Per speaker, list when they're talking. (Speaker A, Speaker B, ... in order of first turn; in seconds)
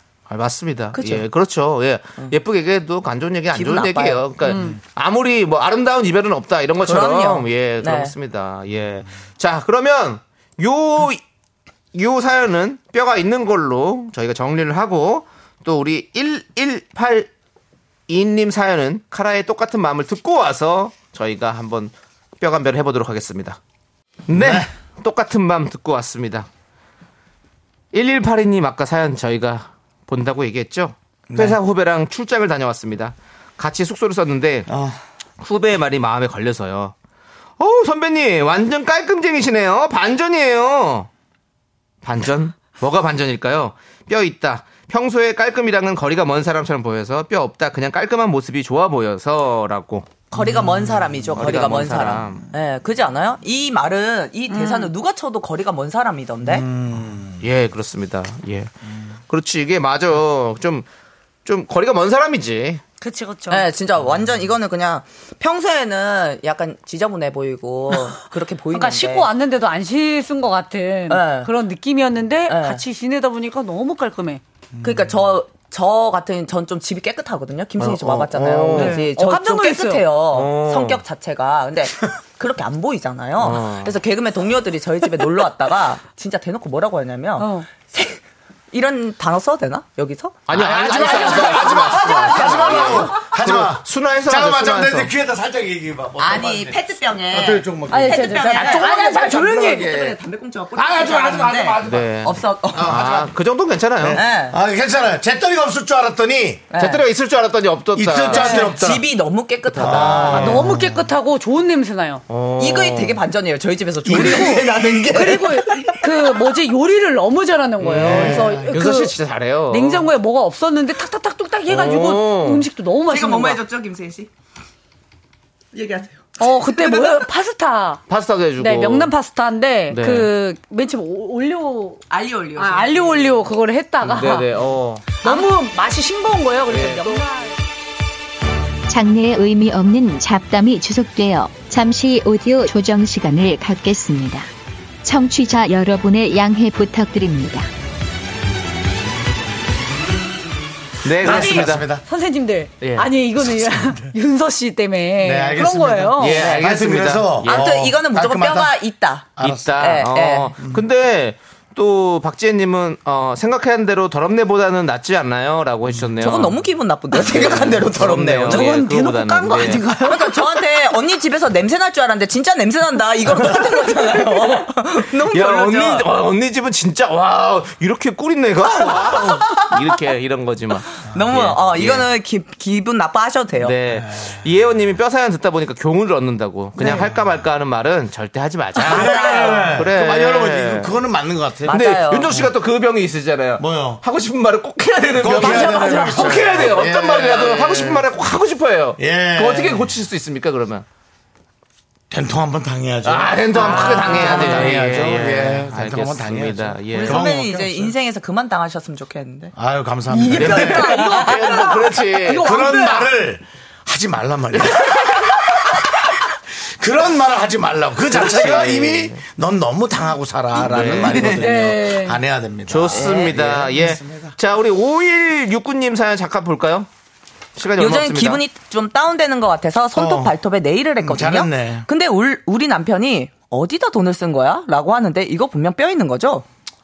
Speaker A: 0.3-11.2, 11.9-17.3, 18.1-23.6, 24.3-26.5, 27.9-34.7, 35.4-37.0, 37.6-41.1, 42.0-50.2, 51.4-52.5, 57.4-58.7, 59.3-60.9, 61.5-62.8, 77.8-79.1, 80.3-81.0, 83.4-84.0, 90.5-95.1, 101.8-104.2, 106.8-108.7, 109.7-110.6, 112.3-113.2, 117.8-120.1, 121.7-122.7, 128.1-129.1, 129.9-130.3, 134.0-135.3, 136.7-137.2, 151.0-151.9, 152.8-153.1, 156.2-157.8, 159.4-166.6, 167.2-169.9, 175.3-182.1, 183.6-190.9, 191.7-200.9, 203.0-207.2, 210.3-212.5, 214.6-214.9, 218.1-219.2, 220.6-221.5, 222.7-226.9, 227.6-228.4
Speaker B: 0.9-1.3, 3.5-4.4, 6.8-8.2, 50.3-56.7, 63.5-69.3, 71.1-71.5, 72.5-72.8, 74.8-93.3, 96.2-103.1, 104.1-104.6, 106.7-107.1, 108.4-110.7, 112.6-116.6, 118.1-118.6, 123.0-124.3, 125.7-127.3, 132.1-133.4, 156.4-156.7, 157.4-160.6, 166.2-168.9, 169.9-176.1, 178.8-179.8, 180.9-183.8, 186.8-187.1, 189.2-189.6, 191.7-192.5, 203.7-204.6, 206.9-209.5, 210.3-211.7, 222.9-223.4, 227.8-236.4
Speaker C: 24.3-24.7, 31.3-31.6, 34.7-35.0, 50.4-51.5, 56.5-57.4, 90.5-99.1, 100.8-102.0, 102.8-103.3, 104.0-106.7, 108.0-109.1, 109.7-111.1, 114.1-114.8, 118.0-118.9, 151.2-152.1, 153.6-154.1, 155.2-158.7, 159.4-159.7, 160.6-160.8, 183.9-184.4, 188.8-191.8, 193.6-194.0, 195.2-198.1, 199.0-199.9, 202.1-207.9, 209.6-211.0, 212.3-224.4, 229.9-230.3, 231.0-231.9
Speaker D: 54.5-54.9, 63.0-63.6, 68.7-74.4, 78.8-80.1, 87.4-87.7, 97.9-99.9, 108.3-108.7, 110.5-112.2, 115.1-119.2, 119.7-123.6, 126.4-128.0, 128.6-132.0, 132.6-134.5, 135.2-137.6, 151.2-156.4, 168.5-170.8, 188.9-189.6, 195.3-196.6, 203.6-204.8, 210.1-213.1, 221.3-222.2
Speaker E: 138.9-144.5, 145.0-147.7